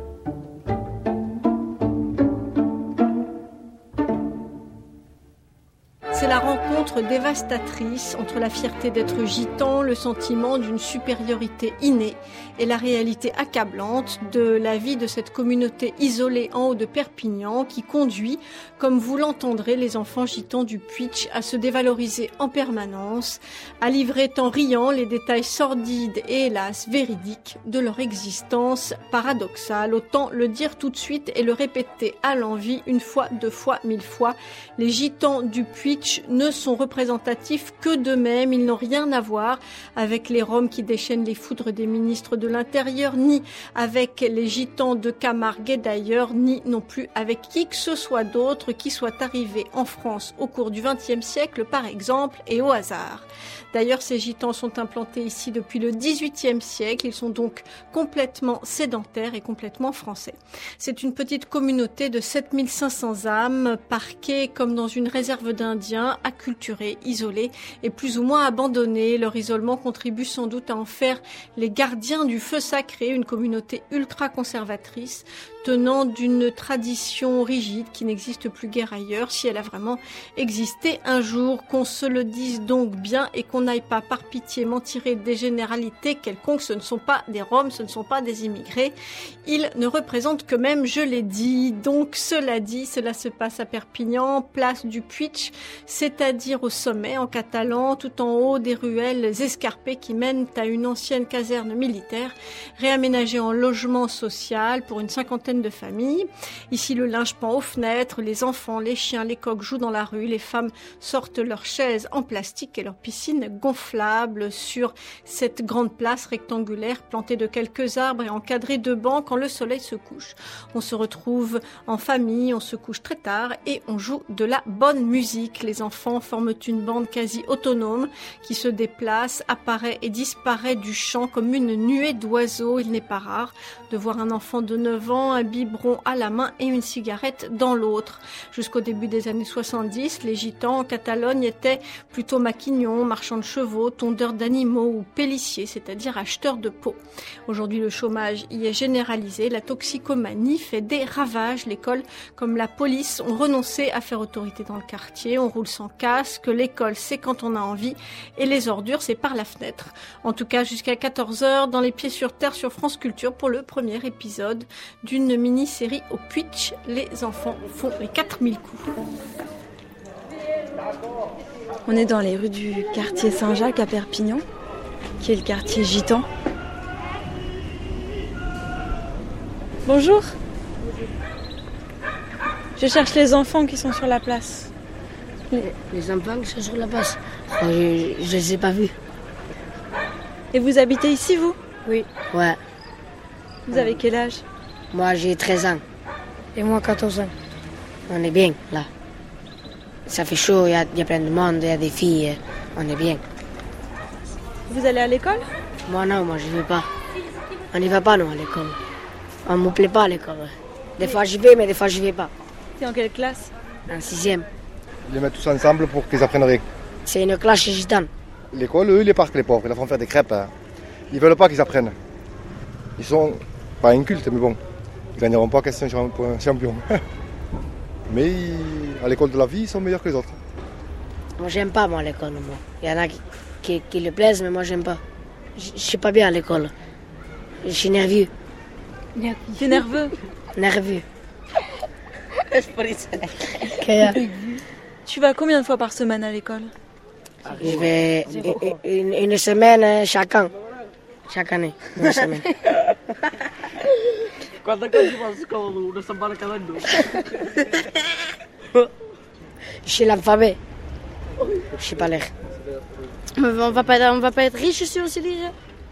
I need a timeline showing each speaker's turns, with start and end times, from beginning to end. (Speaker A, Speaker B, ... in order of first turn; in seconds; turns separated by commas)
Speaker A: 6.1-168.9, Speaker B: 171.9-174.4, Speaker B: 175.2-176.3, Speaker B: 179.8-180.3, Speaker B: 182.8-184.7, Speaker C: 186.6-188.9, Speaker B: 190.5-191.6, Speaker B: 193.7-194.4, Speaker C: 194.9-195.8, Speaker C: 198.1-198.9, Speaker C: 200.1-203.2, Speaker B: 204.7-205.5, Speaker C: 205.9-206.8, Speaker C: 207.7-208.7, Speaker C: 209.4-212.3, Speaker B: 212.8-213.5, Speaker C: 213.9-214.4, Speaker D: 215.1-216.6, Speaker C: 217.1-218.1, Speaker D: 218.5-220.5, Speaker D: 221.1-221.9, Speaker D: 223.0-224.6, Speaker D: 225.2-227.0, Speaker D: 228.1-230.3, Speaker C: 231.4-235.0, Speaker C: 235.6-236.7, Speaker C: 237.6-238.3, Speaker B: 239.6-240.1, Speaker C: 240.6-241.0, Speaker C: 243.8-244.2, Speaker B: 245.1-246.7, Speaker C: 247.6-250.5, Speaker C: 251.3-252.4, Speaker C: 259.9-260.6, Speaker C: 261.8-262.3, Speaker E: 263.3-265.5